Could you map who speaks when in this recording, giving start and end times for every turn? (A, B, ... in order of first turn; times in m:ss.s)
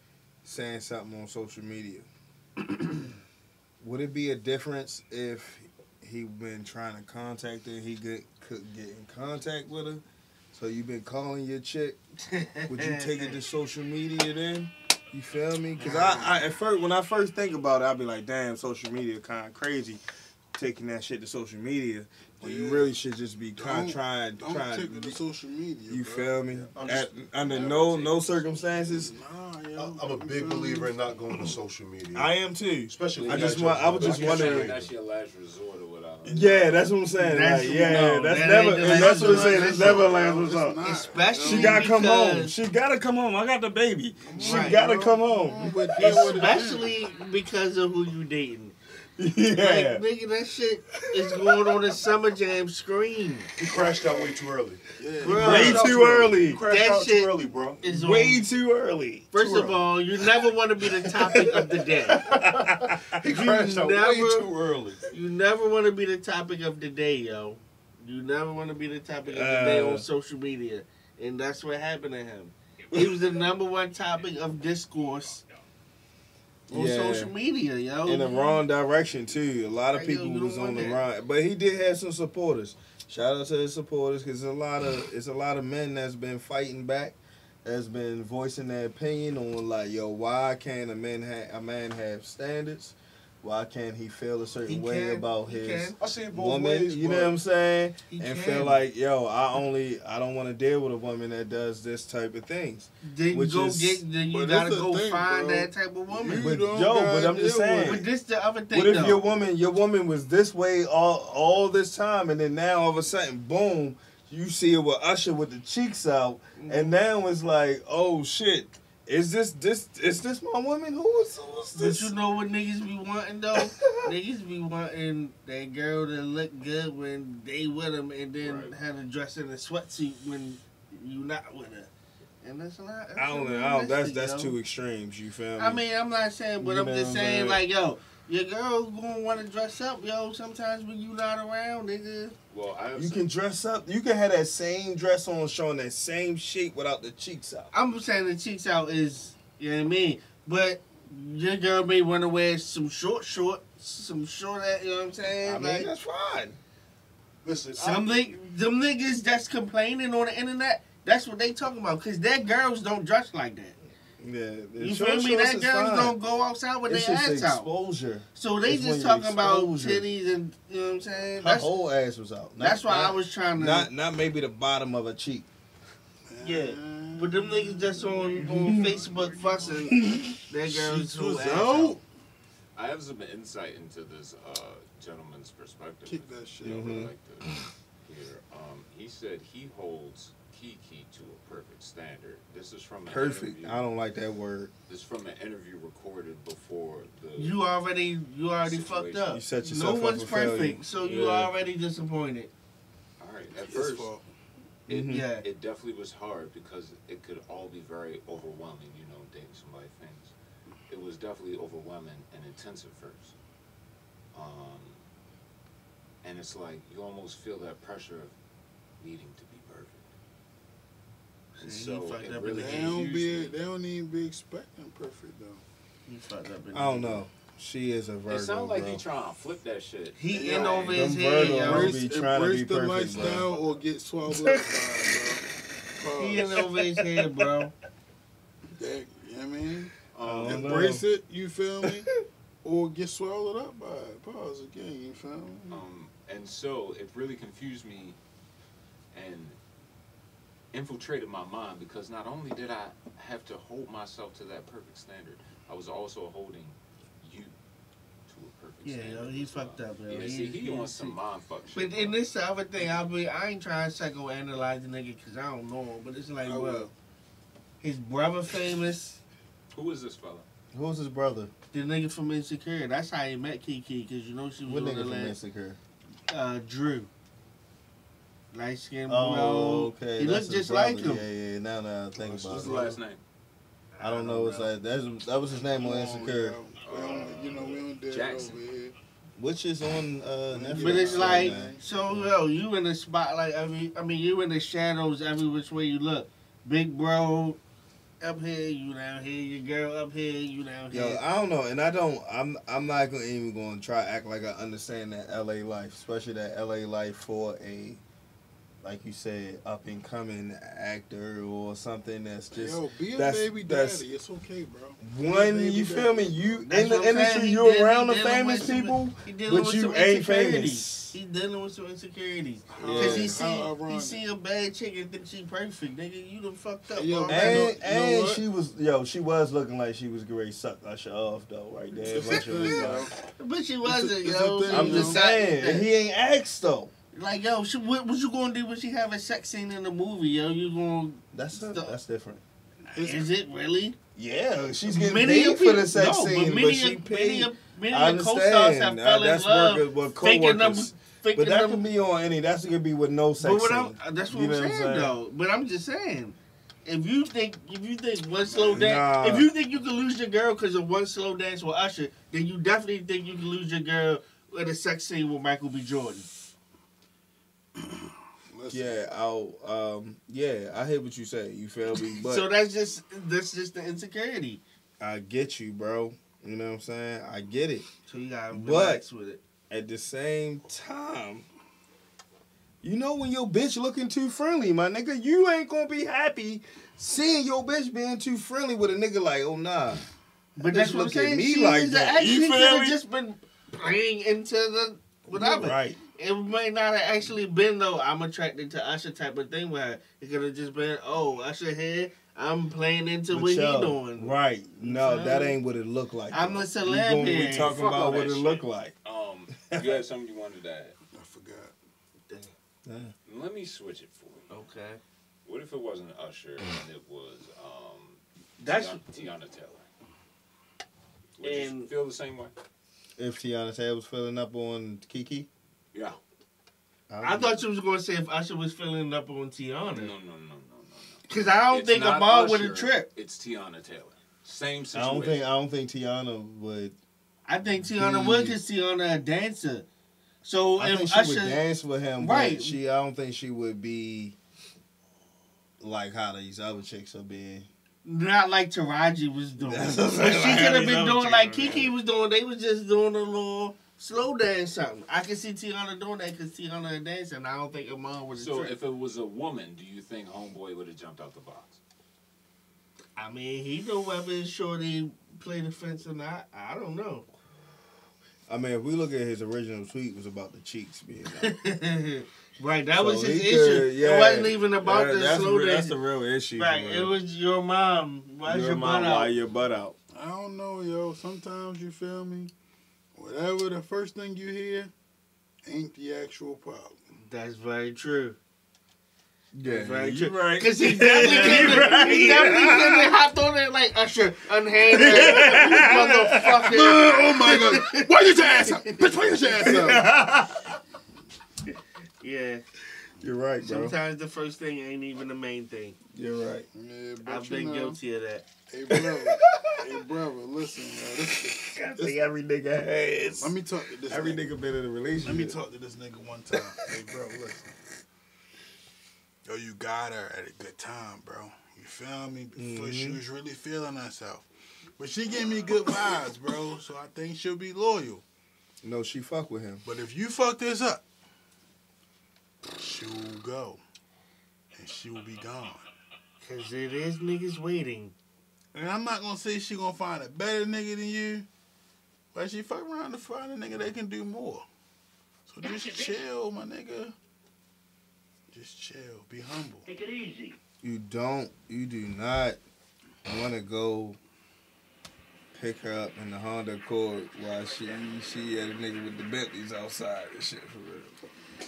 0:00.4-0:02.1 A
0:03.8-0:12.0 A
0:12.3-0:13.4 B
0:12.7-0:20.0 A
0:15.8-0:16.4 C
0:20.5-0:25.2 A
0:22.4-0:22.9 C
0:23.6-0:26.7 C
0:25.9-0:29.1 A
0:26.8-0:27.1 D
0:27.4-0:28.5 E
0:27.4-0:28.0 C
0:28.8-0:30.9 C
0:29.8-0:32.3 D
0:32.2-0:34.7 A
0:32.9-0:34.9 D
0:33.1-0:36.6 E
0:36.2-0:36.9 C
0:36.3-0:40.8 A
0:37.2-0:40.2 B
0:37.6-0:41.9 C
0:40.8-0:42.5 B
0:41.4-0:46.5 A
0:44.2-0:47.0 C
0:44.3-0:44.8 B
0:46.0-0:48.8 B
0:49.2-0:50.0 A
0:49.5-0:53.5 B
0:51.0-0:51.7 A
0:53.6-0:57.8 D
0:54.0-0:54.3 C
0:55.0-0:56.4 C
0:55.2-0:56.6 A
0:55.2-0:55.9 B
0:56.6-0:58.4 B
0:57.8-0:59.3 A
0:59.3-1:02.2 B
0:59.4-0:59.8 C
1:01.2-1:03.2 A
1:02.2-1:05.0 D
1:03.3-1:04.5 B
1:05.1-1:15.4 B
1:09.3-1:10.1 A
1:16.7-1:17.3 A
1:16.7-1:18.6 B
1:18.0-1:44.0 A
1:19.9-1:21.0 B
1:34.7-1:36.0 B
1:36.0-1:37.4 D
1:38.1-1:38.8 B
1:43.0-1:46.6 B
1:44.2-1:48.1 C
1:46.4-1:48.1 A
1:47.8-1:49.2 B
1:48.7-2:02.1 A
1:56.6-1:56.9 B
2:01.8-2:11.9 B
2:03.5-2:04.2 A
2:08.4-2:08.7 E
2:12.4-2:14.6 B
2:13.2-2:15.8 A
2:15.6-2:22.4 B
2:16.6-2:17.6 A
2:22.5-2:23.3 E
2:23.0-2:27.7 A
2:27.7-2:35.9 B
2:35.4-2:36.6 A
2:37.4-2:38.3 D
2:37.8-2:43.8 B
2:44.2-2:46.2 A
2:44.8-2:47.7 B
2:46.9-2:50.1 A
2:48.4-2:51.7 B
2:51.4-2:55.5 A
2:52.6-2:53.9 B
2:56.3-3:00.1 C
2:56.4-3:02.0 B
2:58.5-2:58.9 A
2:59.9-3:00.4 A
3:00.6-3:02.0 C
3:02.8-3:13.8 E
3:06.1-3:07.1 C
3:06.6-3:07.1 A
3:13.1-3:14.7 A
3:14.9-3:17.6 E
3:17.4-3:22.5 B
3:18.6-3:19.4 E
3:19.3-3:21.5 A
3:23.2-3:24.1 E
3:23.6-3:24.3 C
3:24.9-3:25.3 A
3:24.9-3:25.5 B
3:25.4-3:30.3 E
3:30.9-3:33.4 E
3:34.3-3:35.1 E
3:36.2-3:38.4 E
3:39.0-3:40.1 E
3:41.6-3:43.6 E
3:41.6-3:43.0 B
3:42.6-3:45.6 C
3:46.1-3:47.2 B
3:46.7-3:49.0 A
3:48.3-3:51.2 E
3:50.2-3:52.0 B
3:50.3-3:57.0 C
3:50.9-3:53.5 A
3:53.2-3:53.8 E
3:54.4-3:54.7 B
3:56.2-3:57.7 B
3:58.7-4:02.1 C
4:00.1-4:00.7 E
4:00.2-4:01.0 A
4:02.6-4:05.8 C
4:05.7-4:08.2 E
4:09.1-4:09.6 E
4:10.7-4:17.6 E
4:18.3-4:22.2 E
4:18.8-4:21.2 B
4:21.7-4:26.9 B
4:26.4-4:26.9 C
4:27.8-4:29.2 B
4:29.7-4:30.5 E
4:30.7-4:31.5 A
4:31.7-4:35.4 B
4:34.6-4:35.8 A
4:36.3-4:37.1 B
4:38.5-4:41.2 B
4:39.1-4:42.8 A
4:42.2-4:43.0 C
4:42.4-4:43.2 E
4:43.9-4:44.7 B
4:44.0-4:46.6 A
4:45.7-4:49.0 C
4:46.8-4:48.6 E
4:49.4-4:52.3 A
4:50.5-4:51.8 C
4:50.7-4:57.6 B
4:58.2-5:01.2 B
5:00.9-5:08.0 A
5:08.8-5:14.0 A
5:12.5-5:16.7 C
5:15.0-5:21.2 A
5:16.7-5:27.8 B
5:22.7-5:24.3 C
5:22.8-5:23.5 A
5:26.9-5:28.4 C
5:27.3-5:33.1 A
5:32.0-5:33.2 C
5:33.4-5:35.9 B
5:33.8-5:35.2 C
5:34.7-5:36.9 A
5:37.1-5:41.9 B
5:41.3-5:42.4 A
5:42.9-5:43.4 C
5:43.0-5:44.0 B
5:44.2-5:55.2 A
5:44.9-5:51.8 B
5:53.4-5:56.4 B
5:56.9-6:06.3 B
5:58.6-5:59.0 C
5:58.7-5:59.5 A
6:07.8-6:09.1 C
6:08.7-6:12.5 A
6:12.2-6:14.6 B
6:15.0-6:17.9 A
6:18.0-6:19.4 B
6:18.5-6:19.0 A
6:19.7-6:21.5 A
6:22.8-6:30.0 A
6:30.6-6:33.0 A
6:30.6-6:45.6 B
6:35.3-6:36.0 A
6:43.3-6:48.9 A
6:46.3-6:48.4 B
6:47.2-6:51.0 E
6:49.6-6:50.0 A
6:51.1-6:51.7 C
6:52.8-6:53.1 A
6:53.3-6:54.5 E
6:54.5-6:55.0 B
6:55.4-6:59.9 E
6:58.6-6:59.0 B
7:01.4-7:02.5 E
7:01.4-7:01.9 B
7:03.2-7:05.5 A
7:05.9-7:06.2 E
7:07.1-7:07.6 A
7:07.2-7:10.2 B
7:09.9-7:15.4 E
7:11.3-7:13.1 B
7:14.9-7:17.0 A
7:17.5-7:19.9 B
7:17.7-7:18.6 A
7:20.4-7:21.6 B
7:20.8-7:24.4 A
7:22.2-7:22.8 B
7:25.8-7:27.7 A
7:28.0-7:38.8 B
7:29.6-7:31.9 A
7:38.4-7:41.8 E
7:43.2-7:47.3 B
7:48.5-7:51.6 A
7:51.3-7:55.9 B
7:53.0-7:57.1 A
7:56.6-7:59.3 B
7:58.4-8:00.0 A
8:00.1-8:02.5 C
8:03.2-8:04.9 C
8:05.7-8:07.0 C
8:07.2-8:08.4 B
8:09.6-8:13.2 A
8:09.6-8:18.3 B
8:11.2-8:12.8 C
8:14.8-8:16.8 A
8:14.9-8:20.1 C
8:19.6-8:20.6 A
8:22.2-8:22.6 B
8:23.2-8:24.0 A
8:23.6-8:26.0 B
8:26.1-8:26.7 A
8:26.7-8:28.0 C
8:27.2-8:28.5 B
8:28.7-8:32.1 C
8:31.2-8:35.6 A
8:33.4-8:34.5 C
8:35.2-8:37.8 C
8:39.5-8:48.2 C
8:42.6-8:43.2 A
8:48.8-8:49.8 A
8:49.8-8:51.0 C
8:52.8-8:53.8 C
8:54.8-8:55.9 C
8:56.4-8:58.2 B
8:58.7-9:01.5 C
9:02.3-9:04.7 C
9:05.5-9:07.2 C
9:08.5-9:09.9 C
9:10.1-9:10.5 B
9:10.8-9:12.6 A
9:13.2-9:14.2 A
9:15.6-9:21.2 A